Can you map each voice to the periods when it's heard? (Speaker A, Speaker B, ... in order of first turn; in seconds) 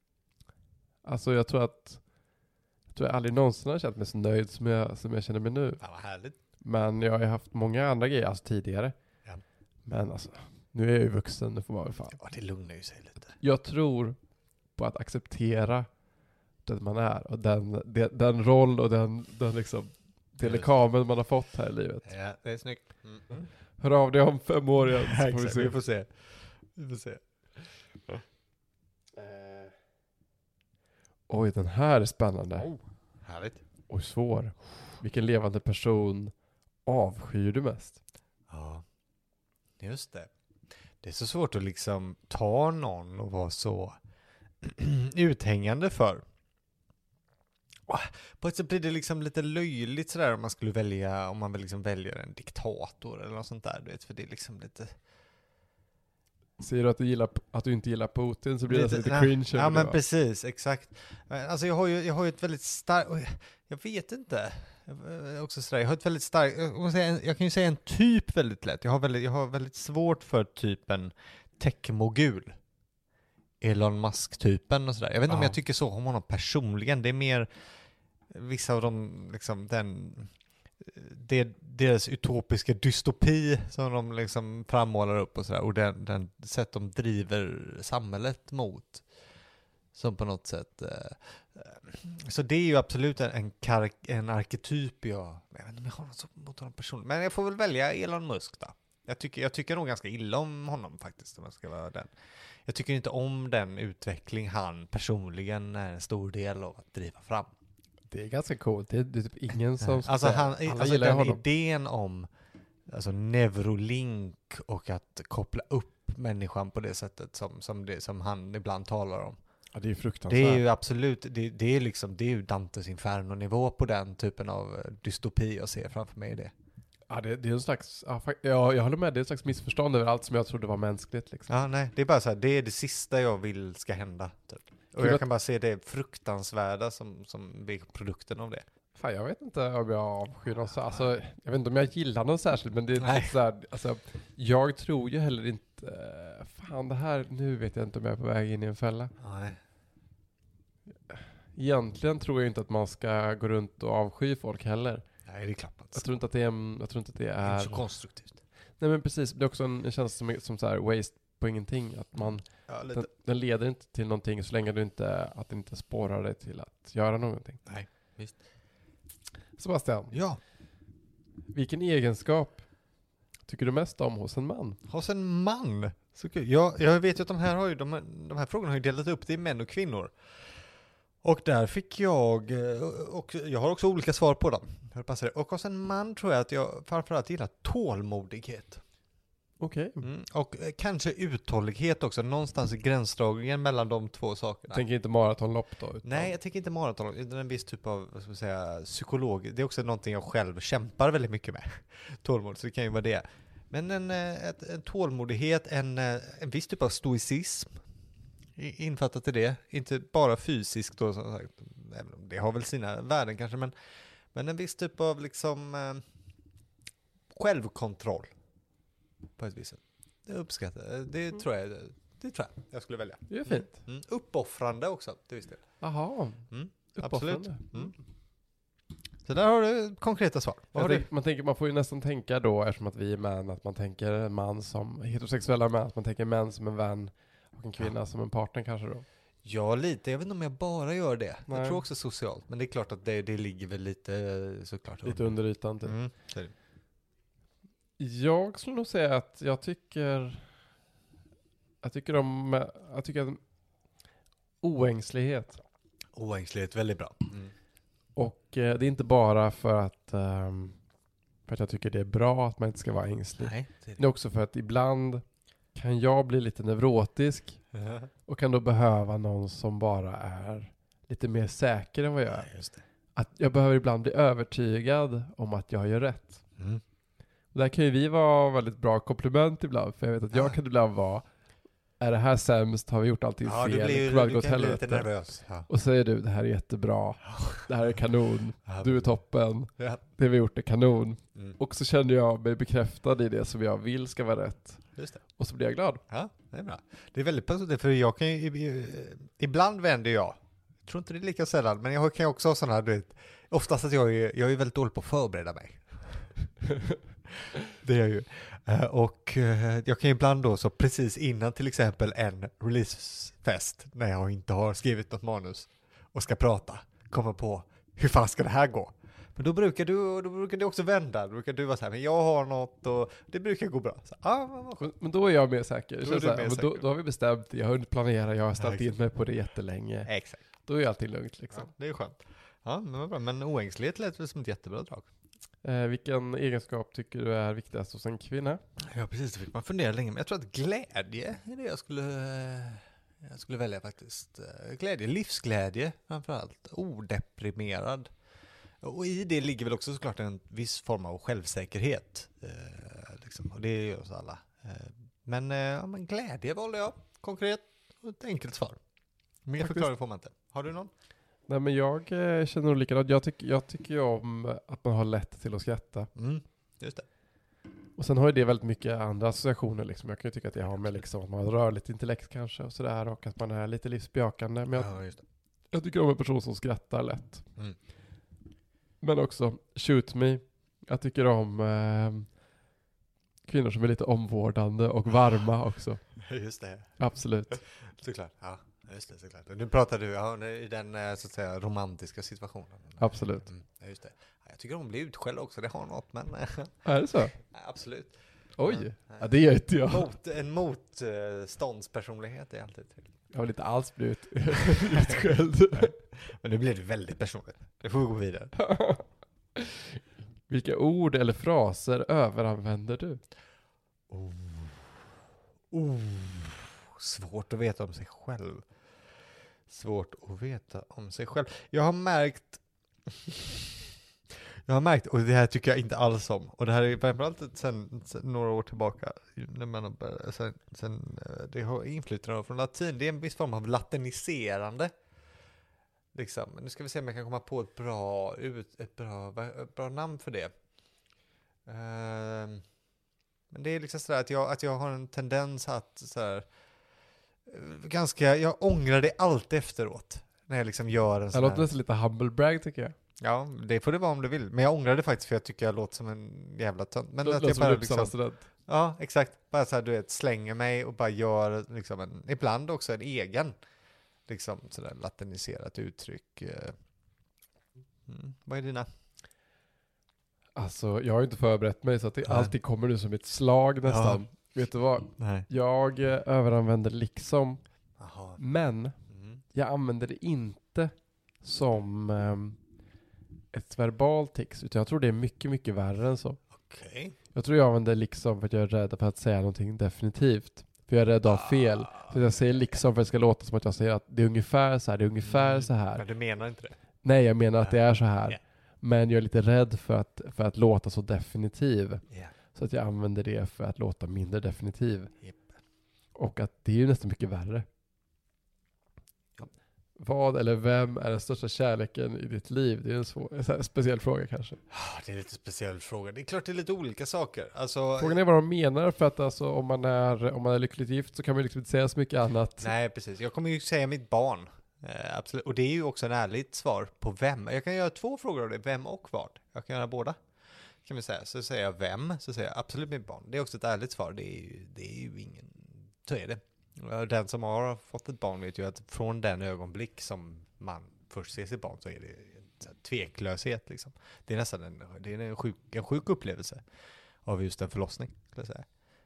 Speaker A: 1.0-2.0, 2.9-5.8, 6.6-8.9, 9.9-12.2, 13.4-14.2, 14.8-15.9, 16.6-22.1, 23.8-25.8, 29.2-29.7, 31.3-32.7, 33.9-36.3, 36.9-38.0, 56.6-60.0, 108.1-111.4, 119.7-120.6, 127.1-131.5, 135.0-135.2, 138.9-149.1, 151.1-155.0, 155.9-157.8, 158.8-167.6, 169.6-170.2, 171.5-172.6, 173.5-174.8, 189.6-190.0, 194.7-196.3, 223.3-223.8, 225.8-227.9, 230.7-239.0, 241.5-241.8, 245.0-246.0, 248.0-250.4, 251.8-253.4, 254.6-255.6, 258.1-260.8, 261.5-265.2, 265.7-267.6, 268.3-272.5, 273.1-276.4, 277.5-281.2, 282.0-285.1, 285.7-294.8, 295.4-296.0, 324.8-330.1, 330.6-331.7, 335.6-338.6, 359.6-359.9, 361.5-366.1, 368.0-374.9, 375.7-377.4, 379.0-382.3, 383.5-386.0, 387.0-387.6, 393.0-393.5, 396.8-397.4, 398.6-400.1, 403.3-405.9, 408.6-409.0, 409.6-413.2, 451.3-452.9, 457.2-458.4, 470.6-477.6, 478.4-478.9, 479.5-482.6, 483.5-486.4, 487.3-496.0, 497.0-505.1, 506.1-507.6, 510.0-514.6, 518.0-522.7
Speaker B: 5.8-6.4, 12.1-13.3, 20.4-20.7, 22.0-23.5, 24.8-27.2, 32.6-33.6, 38.5-38.8, 39.8-40.3, 41.0-44.0, 44.6-46.2, 47.9-55.0, 58.7-72.6, 73.6-77.5, 78.3-89.0, 89.9-102.1, 102.7-107.5, 109.8-112.3, 112.9-119.4, 120.3-126.5, 131.5-138.6, 143.0-143.3, 149.2-149.6, 155.2-156.0, 157.4-158.4, 162.7-163.1, 167.7-168.4, 170.1-170.4, 174.9-180.1, 181.2-188.8, 190.0-194.8, 196.0-207.8, 208.6-213.7, 214.3-216.0, 217.3-218.3, 219.4-225.6, 226.5-227.9, 229.2-231.1, 239.4-246.5, 256.1-257.5, 263.4-264.0, 267.7-268.1, 272.3-272.8, 276.6-276.8, 283.4-285.7, 287.2-287.7, 288.7-289.0, 296.1-306.3, 307.7-324.9, 326.0-326.8, 328.6-328.9, 330.1-330.4, 331.5-335.1, 338.8-348.1, 348.8-358.8, 359.4-360.9, 366.1-367.1, 374.7-375.2, 386.1-386.9, 387.7-396.8, 397.3-399.3, 399.8-403.1, 404.7-405.2, 405.7-408.5, 414.1-414.9, 415.7-418.6, 419.7-434.9, 436.1-440.5, 441.6-442.6, 443.5-446.5, 447.5-451.7, 453.2-458.1, 458.7-463.5, 464.3-466.7, 468.1-468.9, 472.2-472.5, 473.9-474.2, 475.2-475.4, 478.0-478.4, 479.1-479.4, 486.5-487.1, 491.2-492.2, 495.2-496.8, 514.7-518.2, 522.6-530.2, 530.8-546.6, 547.2-548.7